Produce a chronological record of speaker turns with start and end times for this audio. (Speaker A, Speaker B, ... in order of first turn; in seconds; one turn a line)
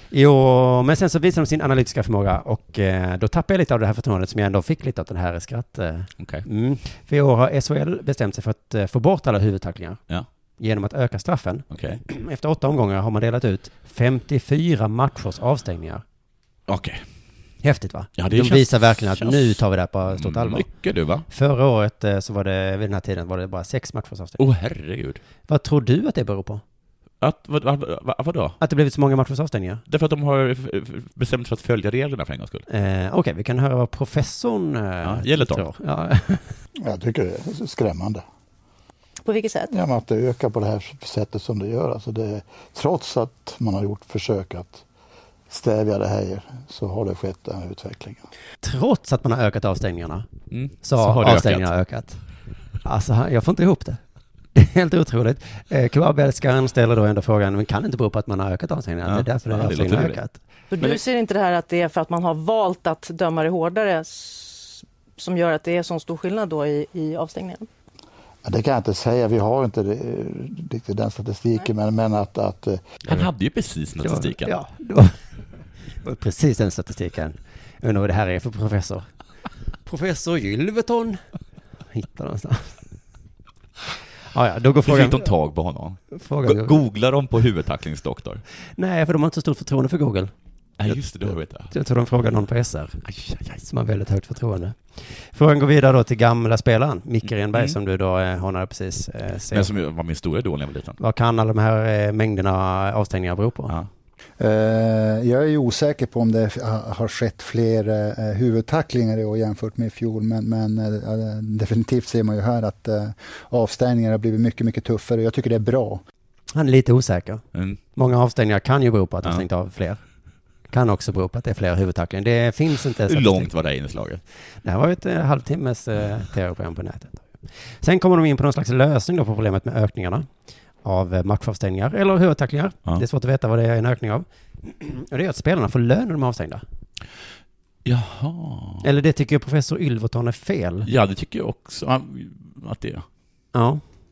Speaker A: 0.1-10.0
Speaker B: 6.2-6.4
Speaker A: 10.6-16.0
Speaker B: 11.7-12.0
Speaker B: 16.7-17.0
Speaker A: 17.6-20.7
Speaker B: 18.2-21.3
Speaker A: 21.3-24.4
Speaker B: 24.4-25.2
Speaker A: 25.5-26.6
Speaker B: 27.2-28.6
Speaker A: 28.6-29.8
Speaker B: 29.9-32.6
Speaker A: 32.7-36.6
Speaker B: 35.0-35.7
Speaker C: 36.8-38.2
Speaker D: 39.2-39.6
Speaker C: 39.7-44.8
Speaker C: 45.5-48.2
Speaker A: 48.6-50.3
Speaker B: 50.5-51.7
Speaker A: 50.8-52.2
Speaker A: 52.8-54.0
Speaker A: 54.5-60.4
Speaker B: 59.0-60.2
Speaker D: 60.7-67.6
Speaker C: 68.4-73.0
Speaker B: 73.0-74.5
Speaker A: 74.0-75.2
Speaker A: 75.9-79.1
Speaker A: 79.8-81.2
Speaker A: 81.9-82.8
Speaker A: 84.3-85.3
Speaker B: 84.8-88.4
Speaker A: 86.1-86.8
Speaker A: 88.7-90.3
Speaker B: 90.8-91.7
Speaker A: 91.7-93.0
Speaker B: 93.0-93.6
Speaker A: 93.6-99.7
Speaker B: 97.5-97.8
Speaker B: 99.5-101.0
Speaker A: 101.0-103.7
Speaker C: 104.4-108.9
Speaker E: 104.6-112.8
Speaker C: 110.9-116.0
Speaker E: 113.6-115.9
Speaker A: 116.5-120.0
Speaker B: 117.5-117.8
Speaker A: 120.7-123.5
Speaker B: 123.0-124.2
Speaker A: 124.5-130.3
Speaker A: 130.8-136.6
Speaker B: 137.8-138.8
Speaker A: 138.8-140.9
Speaker B: 140.8-143.1
Speaker A: 143.5-143.8